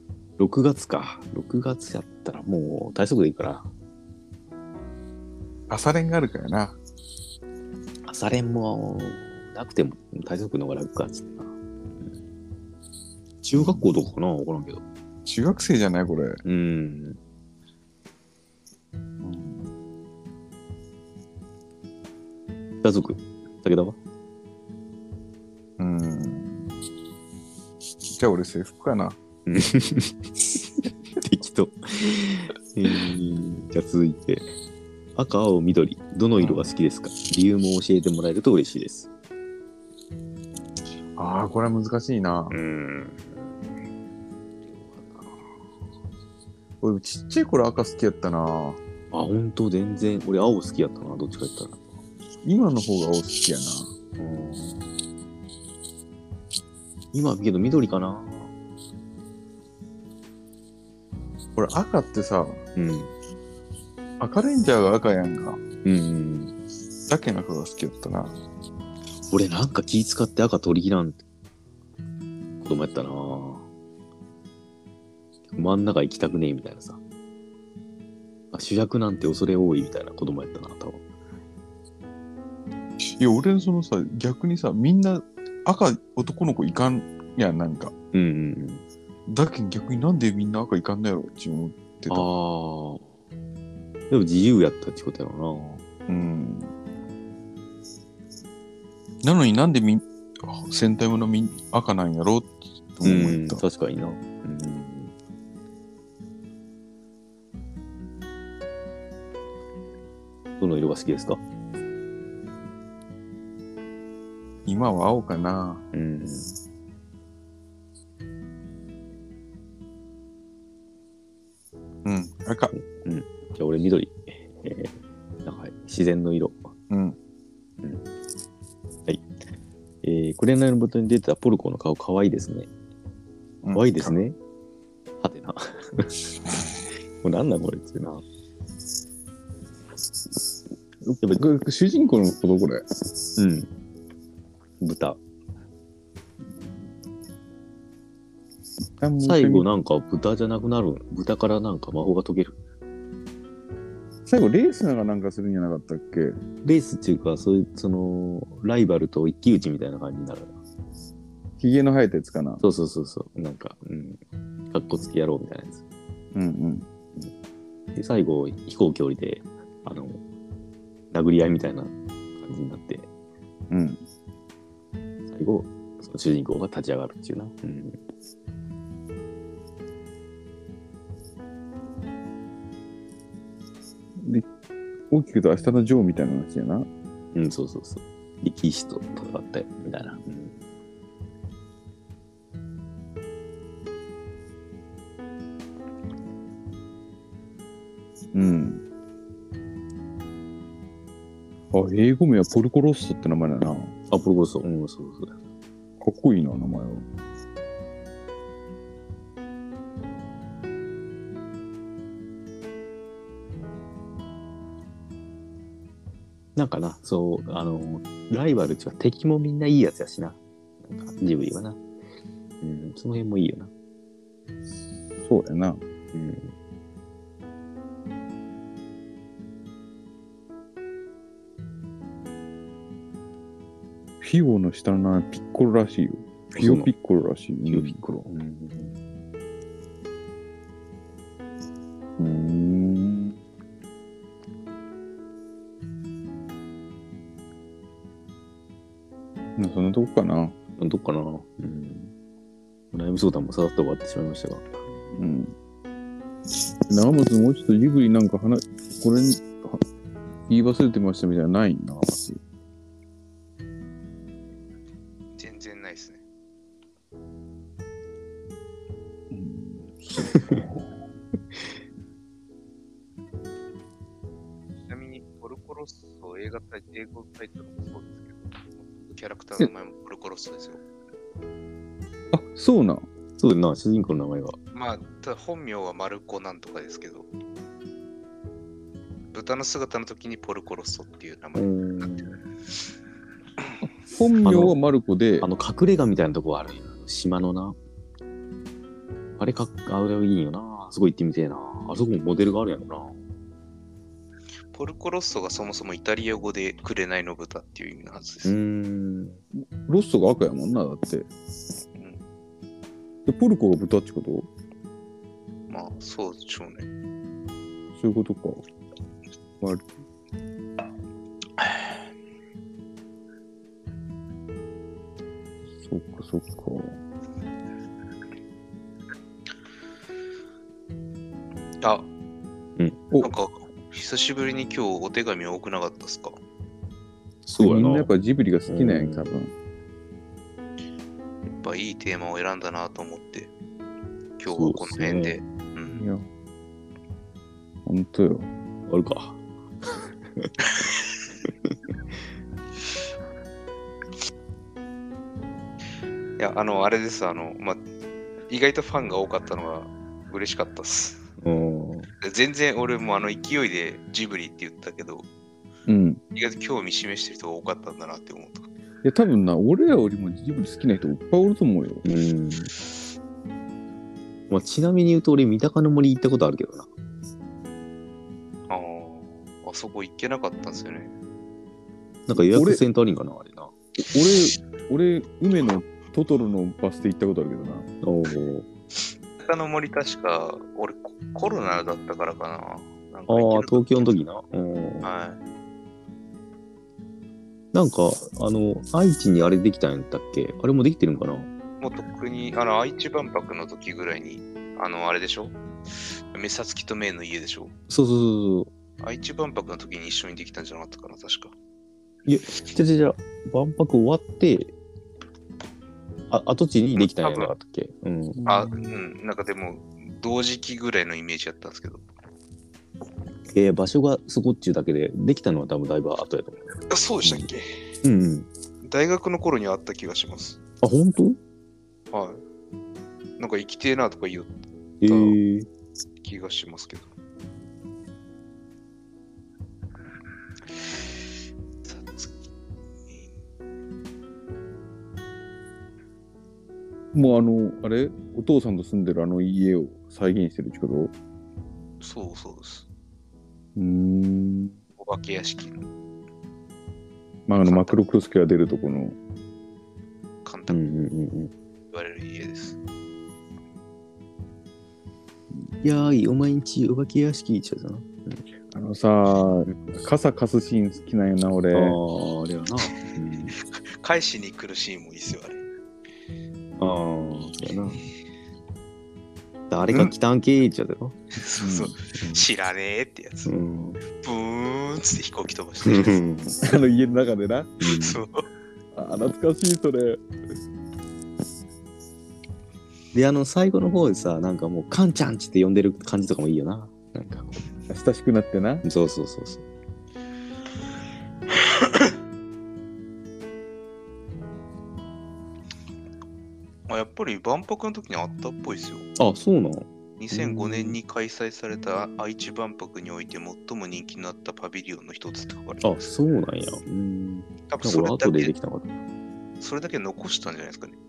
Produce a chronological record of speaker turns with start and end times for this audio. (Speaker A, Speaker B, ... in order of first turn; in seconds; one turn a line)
Speaker A: 0.4-3.7
Speaker B: 5.7-6.8
Speaker A: 8.1-11.5
Speaker A: 13.4-14.8
Speaker B: 13.5-13.9
Speaker B: 15.2-16.4
Speaker A: 16.4-17.2
Speaker B: 19.2-19.7
Speaker A: 22.8-24.0
Speaker B: 25.8-26.7
Speaker B: 28.1-29.2
Speaker A: 29.5-30.2
Speaker A: 31.2-34.5
Speaker A: 35.2-39.1
Speaker B: 36.4-36.7
Speaker B: 41.2-42.5
Speaker A: 42.5-43.5
Speaker A: 44.7-45.4
Speaker B: 46.8-48.8
Speaker A: 49.1-51.9
Speaker B: 52.4-53.9
Speaker A: 54.2-54.8
Speaker A: 57.1-58.5
Speaker B: 61.6-62.6
Speaker A: 62.8-63.1
Speaker B: 64.2-65.6
Speaker A: 65.8-66.5
Speaker B: 67.1-68.3
Speaker A: 69.3-71.2
Speaker A: 72.6-73.7
Speaker A: 75.5-77.0
Speaker A: 78.5-81.0
Speaker B: 83.0-87.9
Speaker A: 88.1-88.8
Speaker B: 89.3-92.3
Speaker A: 92.1-93.1
Speaker A: 94.1-95.8
Speaker B: 96.1-96.7
Speaker B: 99.2-103.6
Speaker A: 103.0-105.1
Speaker A: 110.6-111.4
Speaker B: 114.7-115.8
Speaker A: 115.9-116.6
Speaker B: 122.0-122.7
Speaker A: 122.7-124.9
Speaker A: 125.5-126.7
Speaker B: 126.9-127.2
Speaker A: 130.0-132.7
Speaker B: 133.6-134.2
Speaker A: 133.7-134.4
Speaker A: 135.2-136.3
Speaker A: 137.2-138.2
Speaker B: 141.1-142.8
Speaker A: 143.4-143.7
Speaker A: 144.8-145.2
Speaker B: 149.0-149.7
Speaker A: 149.2-152.6
Speaker B: 154.3-156.4
Speaker A: 156.6-160.5
Speaker B: 161.6-162.6
Speaker A: 162.6-164.2
Speaker A: 164.7-165.8
Speaker B: 166.3-166.9
Speaker A: 167.9-170.2
Speaker A: 171.1-173.1
Speaker B: 173.7-174.0
Speaker A: 175.3-178.0
Speaker B: 184.2-184.5
Speaker B: 185.1-186.9
Speaker A: 187.3-190.6
Speaker B: 198.3-198.8
Speaker B: 201.7-203.9
Speaker A: 204.1-205.4
Speaker B: 206.0-207.1
Speaker A: 216.6-221.8
Speaker A: 222.6-223.7
Speaker B: 225.2-225.8
Speaker A: 226.1-226.5
Speaker B: 234.2-238.0
Speaker A: 236.5-236.9
Speaker A: 237.7-239.0
Speaker B: 242.2-243.4
Speaker B: 249.6-250.6
Speaker A: 250.8-252.1
Speaker A: 252.9-254.8
Speaker B: 255.2-255.5
Speaker B: 256.9-259.8
Speaker B: 260.5-262.4
Speaker C: 265.4-266.2
Speaker B: 269.3-270.8
Speaker C: 274.8-280.8
Speaker B: 282.3-283.1
Speaker A: 283.4-284.6
Speaker C: 284.7-287.3
Speaker C: 289.3-291.7
Speaker A: 291.6-292.4
Speaker B: 294.1-295.5
Speaker A: 294.4-294.8
Speaker A: 295.4-297.8
Speaker A: 299.4-303.2
Speaker C: 304.7-308.5
Speaker A: 308.4-309.4
Speaker B: 309.6-311.3
Speaker B: 313.2-314.5
Speaker C: 315.7-316.9
Speaker B: 317.9-318.6
Speaker B: 325.8-327.0
Speaker C: 331.8-332.1
Speaker C: 333.2-336.4
Speaker A: 337.5-338.1
Speaker B: 337.6-339.5
Speaker A: 338.7-339.3
Speaker C: 341.5-343.5
Speaker C: 344.4-346.1
Speaker A: 344.5-345.4
Speaker B: 345.9-346.3
Speaker B: 347.9-348.5
Speaker A: 348.9-349.4
Speaker A: 349.9-350.5
Speaker A: 351.4-351.8
Speaker C: 356.4-357.8
Speaker C: 358.5-361.2
Speaker A: 361.4-362.1
Speaker C: 362.2-365.3
Speaker B: 365.9-366.2
Speaker C: 366.4-368.7
Speaker B: 369.0-372.0
Speaker A: 372.1-372.7
Speaker A: 374.5-376.9
Speaker C: 378.7-381.1
Speaker A: 382.3-383.7
Speaker B: 382.4-382.8
Speaker B: 384.1-387.9
Speaker A: 388.0-388.7
Speaker C: 389.4-394.2
Speaker A: 393.3-395.1
Speaker C: 395.0-395.4
Speaker A: 397.7-401.5
Speaker C: 401.8-405.6
Speaker C: 406.3-407.7
Speaker A: 407.9-408.7
Speaker C: 409.0-411.5
Speaker A: 412.3-414.7
Speaker A: 416.3-418.4
Speaker C: 417.0-417.5
Speaker B: 418.4-418.9
Speaker C: 418.5-422.0
Speaker A: 423.5-427.5
Speaker C: 426.9-427.7
Speaker A: 428.0-428.5
Speaker C: 428.8-430.6
Speaker A: 430.8-431.4
Speaker C: 432.1-432.4
Speaker C: 433.4-435.4
Speaker A: 435.0-435.7
Speaker C: 436.2-437.1
Speaker C: 441.9-442.4
Speaker B: 447.1-451.1
Speaker C: 452.0-452.9
Speaker B: 453.8-454.8
Speaker C: 455.0-455.8
Speaker B: 457.5-459.2
Speaker C: 457.6-458.0
Speaker C: 460.4-460.8
Speaker A: 460.7-461.5
Speaker C: 461.9-462.8
Speaker A: 465.8-468.4
Speaker B: 468.7-472.0
Speaker A: 471.7-473.6
Speaker C: 474.0-475.6
Speaker A: 476.8-478.0
Speaker A: 479.7-481.2
Speaker C: 481.4-483.5
Speaker B: 481.6-482.4
Speaker A: 483.5-484.0
Speaker C: 484.2-486.2
Speaker A: 485.8-486.6
Speaker B: 486.6-487.8
Speaker A: 487.8-488.2
Speaker C: 487.9-488.5
Speaker B: 488.9-490.2
Speaker A: 493.1-497.6
Speaker B: 497.9-498.9
Speaker A: 498.8-499.6
Speaker C: 506.9-509.1
Speaker A: 509.2-511.0
Speaker C: 510.2-515.9
Speaker A: 515.8-518.9
Speaker C: 517.7-518.5
Speaker C: 519.6-521.0